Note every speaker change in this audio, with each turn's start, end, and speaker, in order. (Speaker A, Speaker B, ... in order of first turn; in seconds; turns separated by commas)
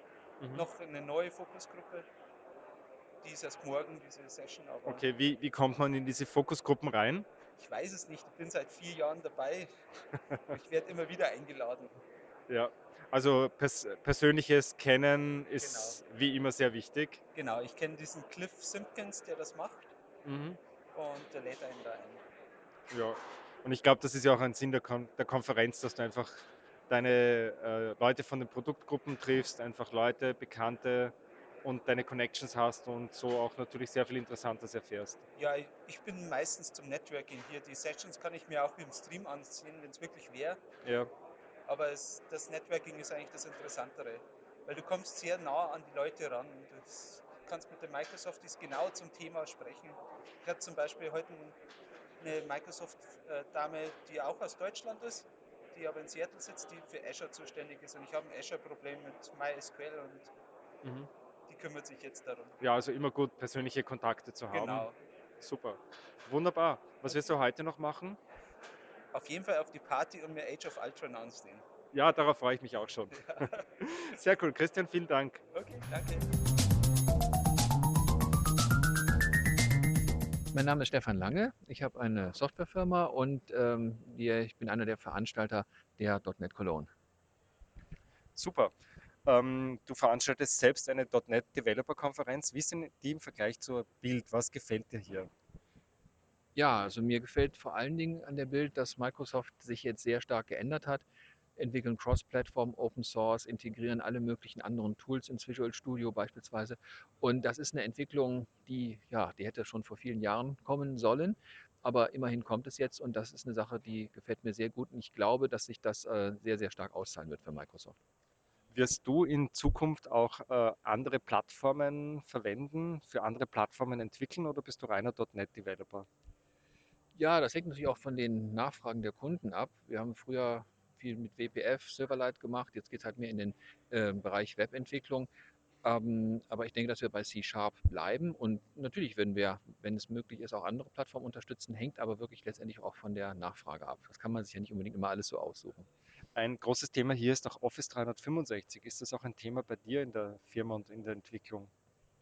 Speaker A: 0.4-0.7, Speaker B: 0.5-2.0, Speaker B: 3.2-5.0, Speaker A: 4.8-7.2, Speaker B: 7.6-9.7, Speaker A: 10.3-10.6, Speaker B: 10.5-12.0, Speaker A: 12.5-17.2, Speaker B: 15.6-16.0, Speaker B: 17.3-19.9, Speaker A: 20.2-20.6, Speaker B: 20.9-22.2, Speaker A: 22.9-35.2, Speaker B: 35.4-40.6, Speaker A: 40.8-41.1, Speaker B: 41.7-51.5, Speaker B: 52.2-60.3, Speaker A: 60.8-61.1, Speaker B: 61.5-62.5, Speaker A: 62.6-64.9, Speaker B: 64.5-65.0, Speaker A: 65.4-68.2, Speaker B: 69.1-71.6, Speaker A: 71.9-75.4, Speaker B: 73.2-73.6, Speaker B: 75.5-76.3, Speaker C: 80.5-86.9, Speaker A: 88.3-88.7, Speaker A: 89.2-95.3, Speaker C: 96.5-101.0, Speaker C: 101.6-118.0, Speaker A: 118.7-126.1, Speaker C: 127.1-135.3, Speaker C: 135.8-145.9, Speaker A: 146.3-151.7